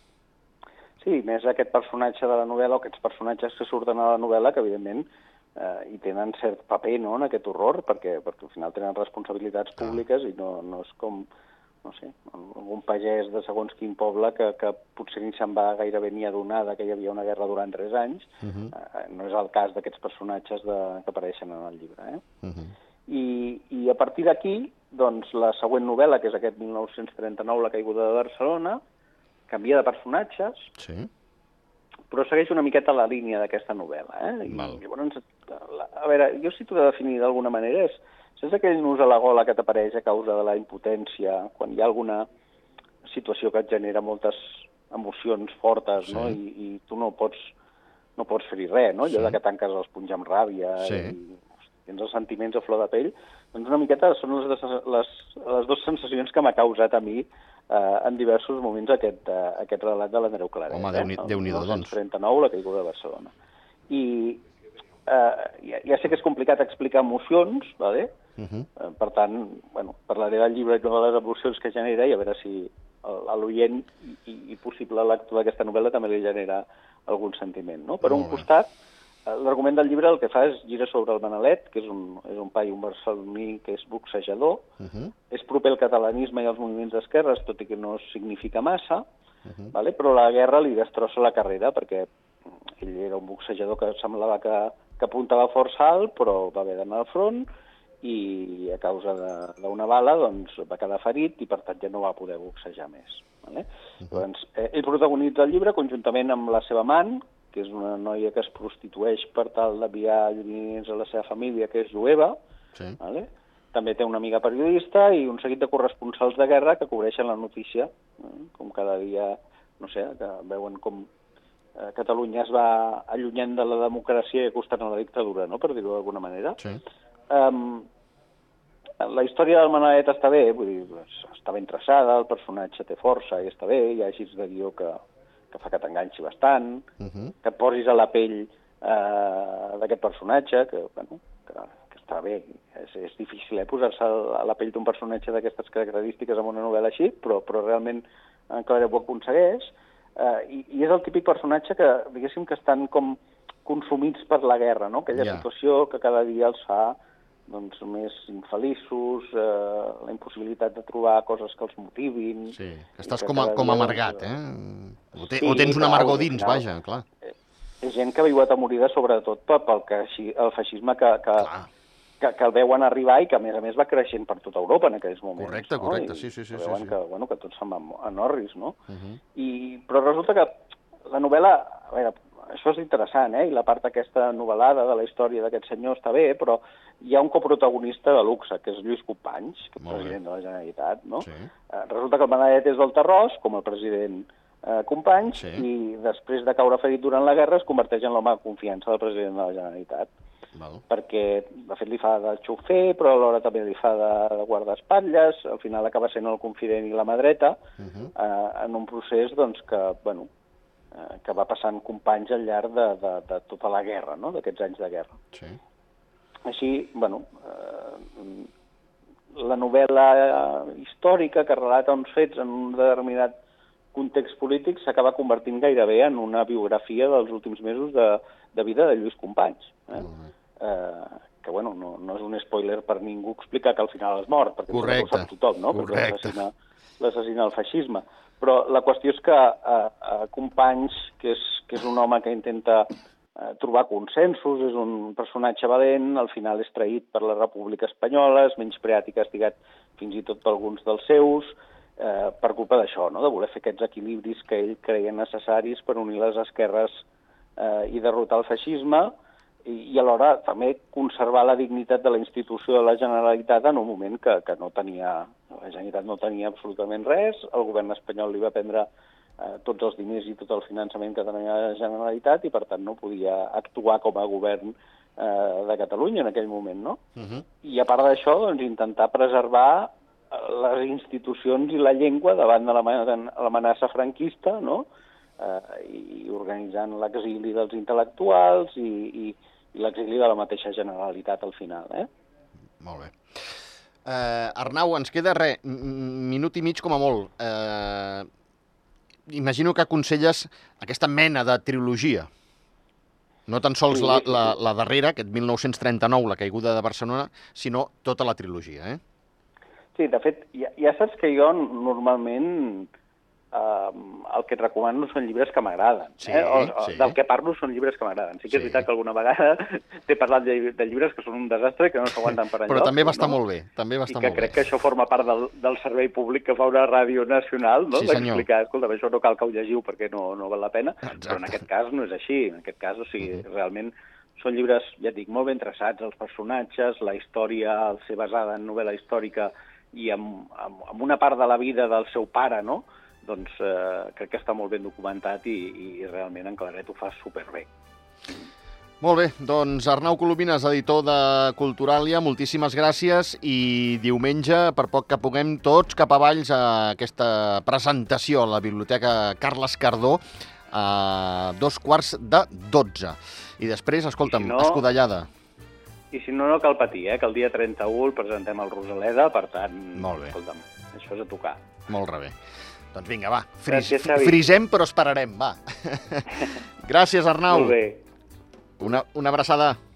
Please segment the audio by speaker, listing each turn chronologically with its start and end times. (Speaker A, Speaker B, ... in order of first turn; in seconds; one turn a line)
Speaker A: 1.0-11.3
Speaker A: 11.8-22.2
Speaker B: 18.4-18.7
Speaker B: 22.4-22.7
Speaker A: 23.1-28.8
Speaker A: 29.5-30.7
Speaker B: 30.8-31.1
Speaker A: 32.1-42.2
Speaker B: 34.5-34.8
Speaker A: 43.1-47.5
Speaker B: 46.0-46.4
Speaker A: 48.2-63.3
Speaker B: 50.8-51.1
Speaker B: 60.7-61.9
Speaker A: 63.9-64.4
Speaker A: 65.1-68.1
Speaker B: 68.4-68.7
Speaker A: 68.8-78.7
Speaker B: 78.0-78.4
Speaker A: 79.3-84.6
Speaker B: 84.8-85.1
Speaker A: 85.3-89.0
Speaker B: 89.5-89.7
Speaker A: 89.7-92.1
Speaker A: 92.8-97.5
Speaker A: 98.0-112.3
Speaker A: 113.0-121.1
Speaker A: 121.8-126.6
Speaker A: 127.3-127.9
Speaker A: 129.0-136.9
Speaker B: 137.0-137.3
Speaker A: 137.4-156.9
Speaker B: 155.1-155.4
Speaker A: 157.5-164.3
Speaker B: 162.6-167.0
Speaker A: 165.2-166.6
Speaker A: 167.2-171.5
Speaker B: 171.4-171.7
Speaker A: 172.2-178.8
Speaker B: 175.4-176.9
Speaker B: 178.9-179.2
Speaker A: 179.3-180.6
Speaker A: 181.1-200.1
Speaker B: 189.8-190.2
Speaker B: 191.2-191.5
Speaker B: 195.3-195.7
Speaker B: 200.6-200.8
Speaker A: 200.9-207.6
Speaker B: 207.8-208.1
Speaker A: 208.1-210.3
Speaker A: 211.0-215.2
Speaker B: 215.3-215.6
Speaker A: 216.4-218.5
Speaker A: 219.3-223.3
Speaker A: 223.9-242.9
Speaker B: 229.9-230.3
Speaker B: 234.7-236.3
Speaker A: 243.4-257.0
Speaker A: 257.6-259.1
Speaker A: 259.6-268.9
Speaker A: 269.4-277.0
Speaker B: 277.1-277.4
Speaker A: 277.6-284.9
Speaker A: 285.4-292.1
Speaker B: 292.8-298.3
Speaker B: 299.3-302.3
Speaker B: 303.5-309.0
Speaker A: 303.9-304.6
Speaker A: 309.9-312.9
Speaker A: 313.5-323.4
Speaker B: 316.2-317.2
Speaker B: 318.5-318.9
Speaker B: 322.7-324.6
Speaker A: 324.1-347.7
Speaker B: 327.9-328.4
Speaker B: 331.1-331.5
Speaker B: 349.0-365.3
Speaker A: 364.3-364.8
Speaker A: 366.1-371.6
Speaker B: 369.9-370.3
Speaker B: 371.9-372.4
Speaker B: 372.9-377.8
Speaker A: 373.7-374.4
Speaker A: 377.5-378.0
Speaker B: 378.8-379.8